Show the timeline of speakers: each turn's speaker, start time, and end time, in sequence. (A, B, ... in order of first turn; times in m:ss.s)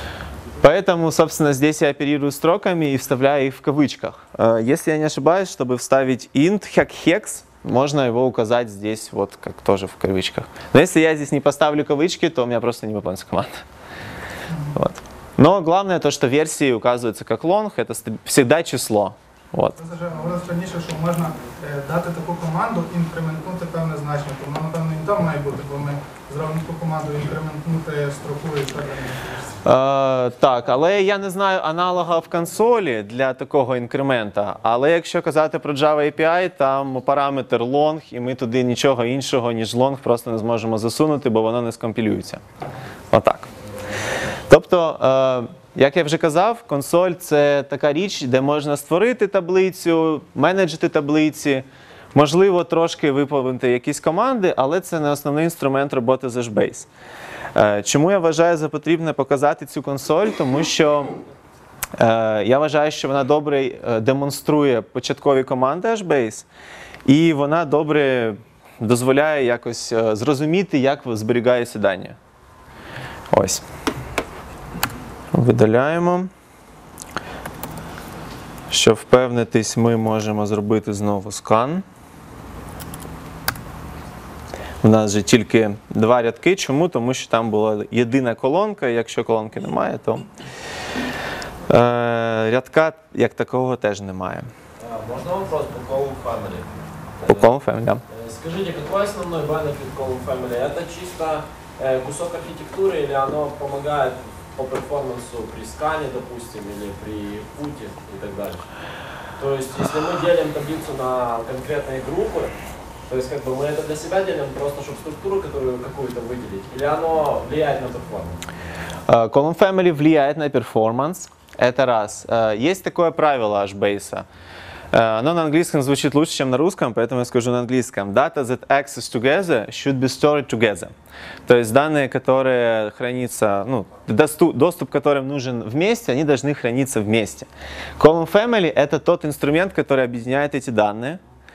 0:00.6-0:13.6 A
0:14.7-0:19.8 A
0:19.8-0:29.6 B
0:29.6-0:42.4 A
0:43.1-0:43.5 A
0:44.5-0:56.9 A
0:57.5-1:01.1 A
1:02.0-1:06.4 A
1:07.0-1:12.2 A
1:13.3-1:13.6 A
1:15.3-1:16.3 A
1:18.7-1:21.8 A
1:24.8-1:30.2 A
1:31.7-1:34.5 A
1:34.8-1:37.5 C
1:37.3-1:38.0 A
1:38.1-1:48.7 C
1:49.4-1:52.6 C
1:53.1-1:58.4 C
1:59.1-2:04.2 A
2:04.9-2:10.9 A
2:11.4-2:17.5 A
2:18.0-2:21.2 A